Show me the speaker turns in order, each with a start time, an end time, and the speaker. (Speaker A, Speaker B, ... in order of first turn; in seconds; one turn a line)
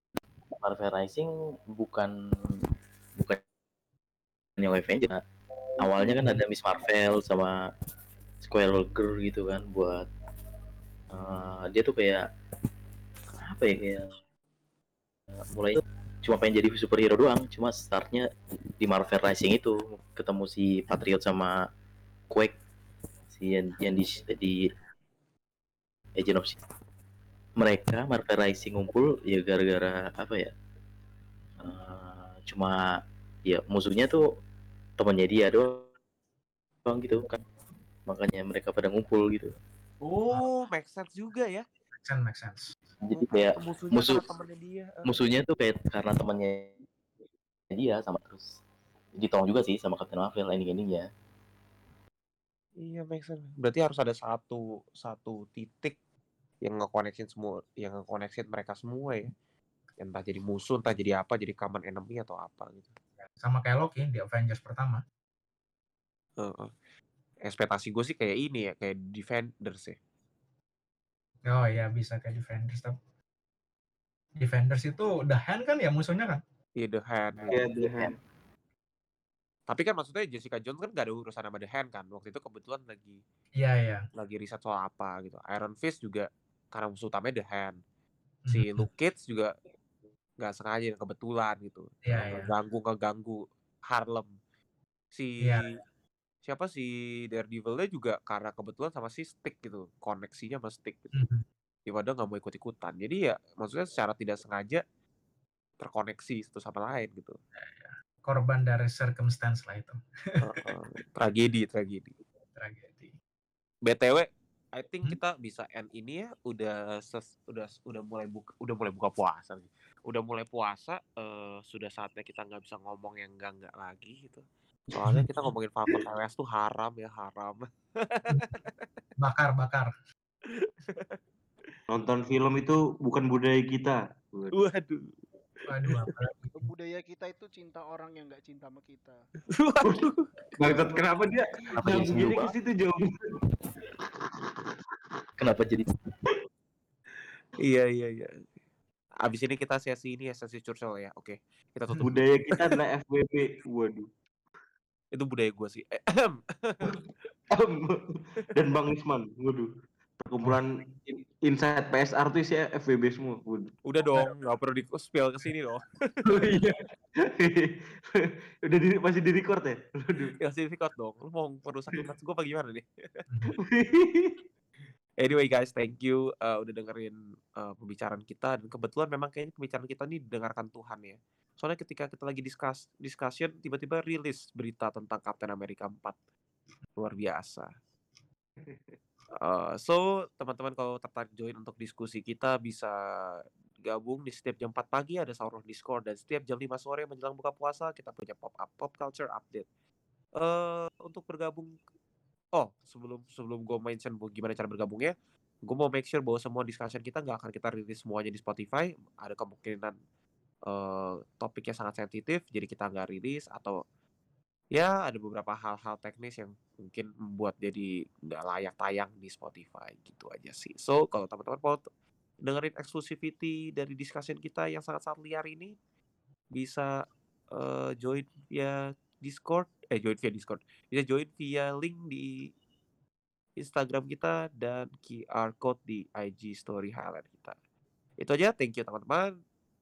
Speaker A: 0.6-2.1
Speaker A: 4.6-5.2
Speaker A: 5.8-7.5
Speaker A: 8.4-10.0
Speaker A: 11.1-12.2
Speaker A: 13.4-14.1
Speaker A: 15.5-18.2
Speaker A: 18.8-21.5
Speaker A: 22.3-22.6
Speaker A: 23.3-24.6
Speaker A: 26.2-26.5
Speaker A: 27.6-30.5
Speaker A: 31.6-34.2
Speaker A: 35.0-35.9
Speaker A: 36.8-37.4
Speaker A: 38.0-39.5
Speaker B: 40.0-41.6
Speaker C: 42.0-42.8
Speaker A: 43.0-44.2
Speaker B: 43.2-45.1
Speaker A: 45.0-46.7
Speaker A: 47.7-48.5
Speaker A: 49.1-51.0
Speaker B: 52.8-56.0
Speaker B: 56.6-59.3
Speaker B: 60.0-62.9
Speaker C: 63.4-65.0
Speaker B: 66.4-66.7
Speaker B: 67.4-70.0
Speaker C: 71.5-73.0
Speaker C: 74.4-76.4
Speaker B: 76.8-77.5
Speaker A: 77.5-78.1
Speaker D: 77.5-78.1
Speaker B: 79.7-83.2
Speaker C: 83.6-84.0
Speaker B: 84.2-87.8
Speaker C: 88.5-88.9
Speaker B: 88.5-89.5
Speaker B: 90.4-94.3
Speaker C: 92.0-92.5
Speaker B: 95.1-95.7
Speaker B: 96.4-101.1
Speaker C: 101.1-101.4
Speaker B: 101.9-104.8
Speaker B: 105.8-107.4
Speaker C: 107.6-110.7
Speaker B: 110.4-112.2
Speaker C: 112.5-113.1
Speaker B: 113.8-128.8
Speaker C: 128.3-128.5
Speaker C: 129.2-129.9
Speaker B: 130.4-131.2
Speaker D: 131.9-134.5
Speaker B: 134.5-135.1
Speaker B: 135.6-136.1
Speaker C: 135.7-136.6
Speaker E: 136.6-139.2
Speaker B: 139.5-140.3
Speaker D: 139.8-143.0
Speaker A: 141.7-142.5
Speaker A: 145.4-145.9
Speaker B: 147.6-148.4
Speaker B: 149.2-152.8
Speaker D: 152.0-154.1
Speaker B: 155.1-156.9
Speaker D: 157.5-158.0
Speaker D: 158.5-159.7
Speaker D: 160.2-164.3
Speaker B: 163.9-166.4
Speaker D: 166.2-166.8
Speaker D: 167.3-170.3
Speaker B: 170.4-172.8
Speaker C: 173.3-173.6
Speaker D: 173.7-174.4
Speaker B: 175.2-186.2
Speaker B: 186.9-187.7
Speaker D: 188.6-188.9
Speaker B: 189.4-199.7
Speaker B: 200.4-201.7
Speaker B: 202.6-205.1
Speaker B: 205.6-209.9
Speaker B: 210.7-213.8
Speaker B: 214.7-221.8
Speaker B: 222.4-225.7
Speaker B: 226.5-226.9
Speaker B: 227.5-232.5
Speaker B: 233.6-237.6
Speaker B: 238.2-239.3